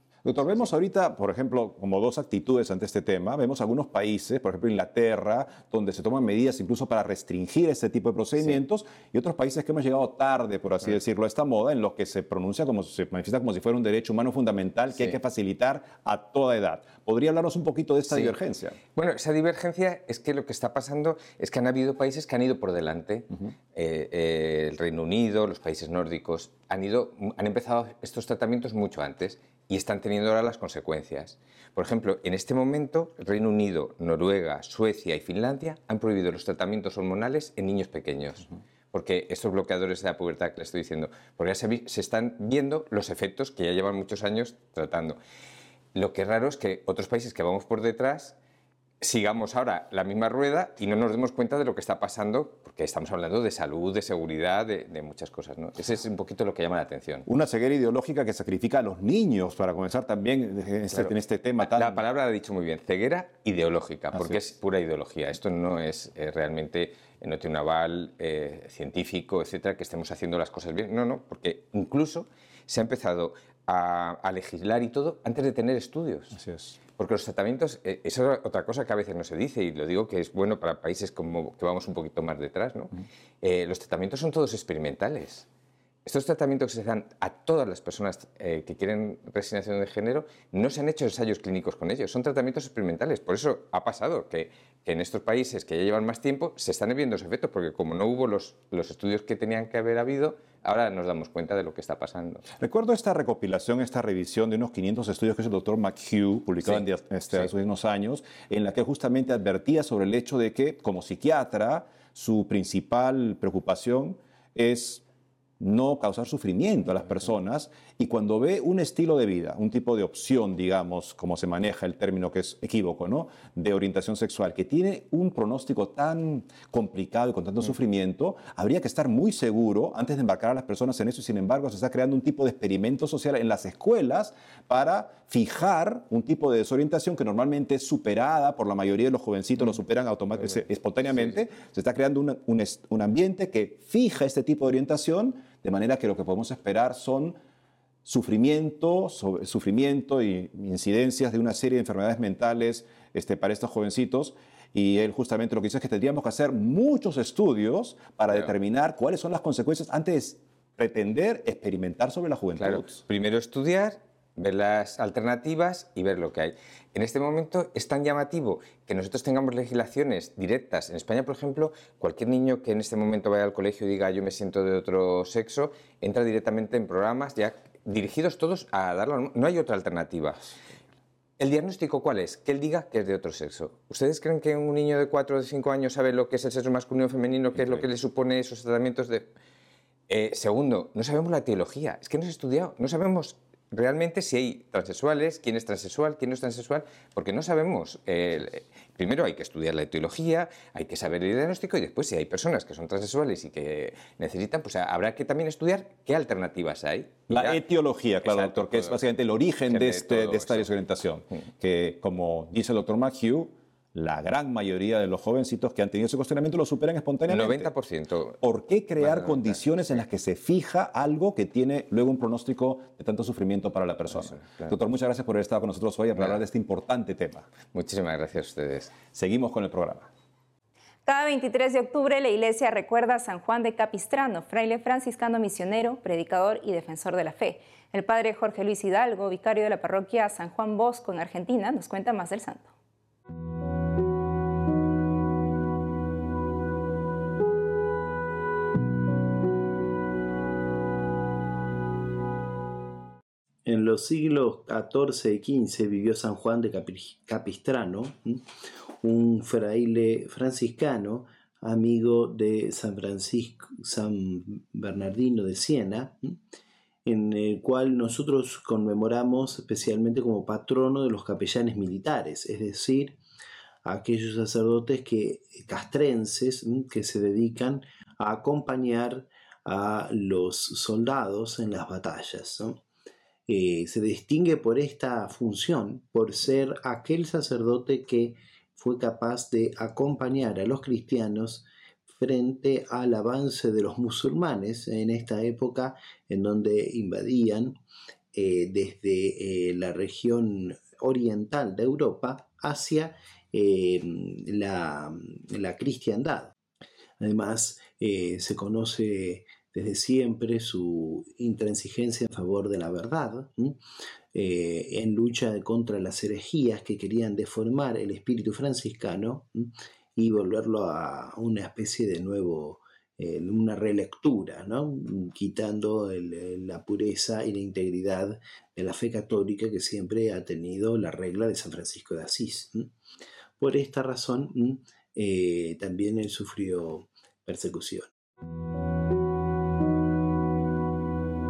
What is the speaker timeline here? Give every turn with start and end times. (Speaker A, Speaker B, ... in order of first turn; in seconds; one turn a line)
Speaker A: 0.2-18.8
Speaker B: 0.4-0.7
Speaker B: 18.1-18.4
Speaker B: 18.9-45.2
Speaker B: 45.9-48.4
Speaker B: 49.0-57.2
Speaker A: 57.2-62.0
Speaker B: 60.9-76.3
Speaker A: 76.3-76.8
Speaker B: 76.9-85.5
Speaker B: 86.0-102.5
Speaker A: 102.6-115.0
Speaker B: 106.6-107.5
Speaker A: 115.6-147.4
Speaker A: 148.0-163.0
Speaker B: 162.6-180.6
Speaker B: 181.4-189.3
Speaker A: 187.6-187.8
Speaker B: 190.1-207.6
Speaker A: 207.3-217.7
Speaker B: 208.2-209.0
Speaker B: 209.7-210.7
Speaker B: 217.3-218.4
Speaker A: 218.4-227.5
Speaker B: 219.0-220.0
Speaker B: 224.1-224.7
Speaker B: 226.2-226.4
Speaker B: 227.7-229.0
Speaker A: 229.1-230.1
Speaker C: 231.1-242.7
Speaker D: 253.7-258.4
Speaker D: 259.0-266.3
Speaker D: 267.1-273.2
Speaker D: 273.8-282.8
Speaker D: 283.5-297.8
Speaker D: 298.3-306.5
Speaker D: 307.2-313.8
Speaker D: 314.3-332.9
Speaker D: 333.6-338.1